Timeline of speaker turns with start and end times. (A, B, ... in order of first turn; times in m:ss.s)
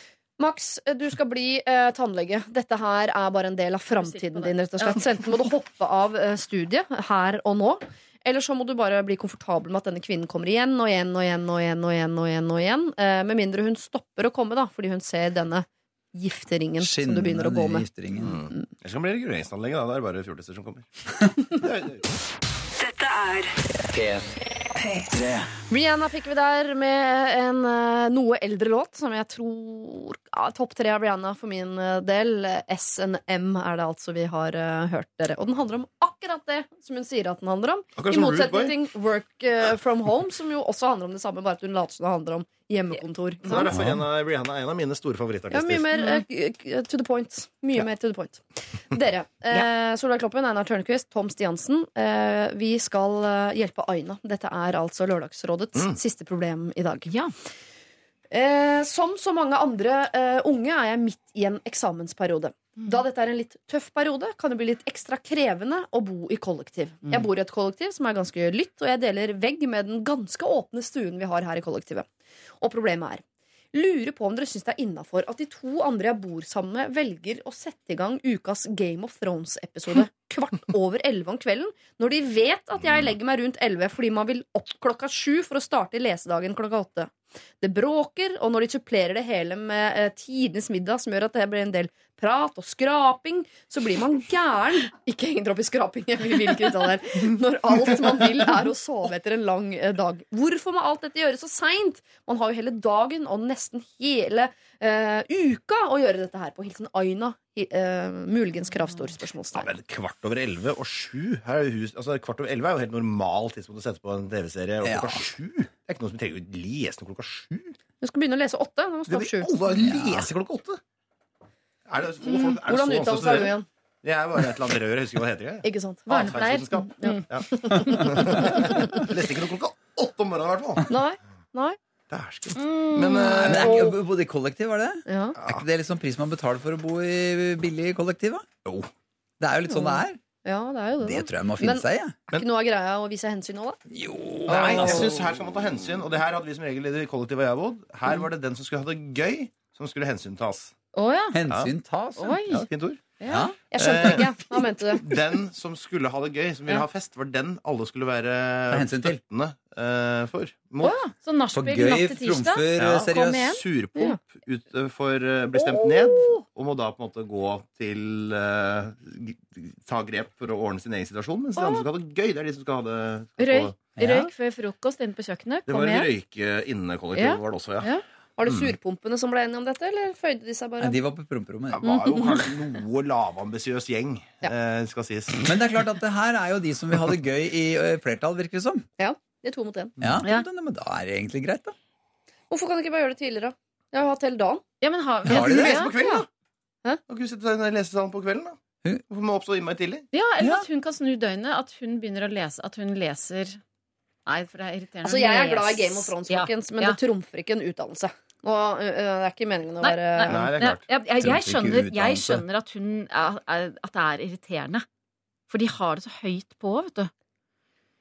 0:00.4-0:17.9 A
0:03.9-0:05.0 B
0:16.8-0:18.4 C
0:18.2-0:20.9 D
0:21.5-0:22.0 D
0:22.8-0:24.2 E
0:24.9-0:25.5 E
0:25.7-0:43.7 A
0:38.0-0:38.7 D
0:43.4-0:45.9 D
0:43.8-0:44.0 C
0:45.5-0:57.1 A
0:46.0-0:46.2 B
0:57.1-0:57.3 B
0:58.3-1:12.1 A
1:12.6-1:49.7 A
1:22.8-1:23.1 D
1:49.6-1:57.8 D
1:54.8-1:55.2 C
1:58.0-1:59.5 A
1:59.1-2:00.8 D
1:59.7-2:00.3 C
2:01.9-2:11.0 D
2:02.2-2:03.7 A
2:05.6-2:06.4 A
2:06.1-2:07.2 B
2:07.0-2:09.1 A
2:10.9-2:11.8 A
2:12.1-2:13.9 D
2:12.6-2:13.7 B
2:13.4-2:18.5 C
2:13.5-2:14.0 A
2:15.1-2:15.4 A
2:15.4-2:15.6 D
2:18.6-2:18.9 D
2:19.4-2:20.2 C
2:19.7-2:23.8 A
2:21.0-2:22.2 C
2:23.9-2:25.3 C
2:24.5-2:30.7 D
2:24.5-2:25.1 A
2:30.9-2:31.4 B
2:31.3-2:32.4 C
2:32.2-2:32.7 B
2:32.5-2:33.0 D
2:33.2-2:33.5 B
2:33.3-2:33.6 C
2:33.7-2:35.0 A
2:33.8-2:41.0 D
2:38.7-2:39.2 C
2:40.8-2:43.6 B
2:41.5-2:43.6 C
2:42.8-2:53.8 D
2:51.6-2:51.9 B
2:53.4-2:56.1 B
2:54.0-2:54.3 C
2:55.7-2:57.9 D
2:57.2-2:58.0 B
2:58.4-3:01.0 A
2:58.5-2:58.7 D
3:00.8-3:01.9 C
3:01.7-3:05.7 D
3:01.8-3:02.3 A
3:05.4-3:08.9 C
3:09.0-3:10.0 A
3:10.0-3:11.8 C
3:12.5-3:14.6 A
3:14.8-3:15.9 B
3:15.2-3:16.3 D
3:15.3-3:15.9 C
3:16.0-3:16.2 A
3:17.1-3:20.1 D
3:20.1-3:23.6 B
3:20.4-3:20.7 C
3:24.3-3:27.0 B
3:25.0-3:30.5 A
3:29.8-3:34.8 B
3:30.3-3:30.8 D
3:31.2-3:32.4 C
3:35.5-3:37.1 B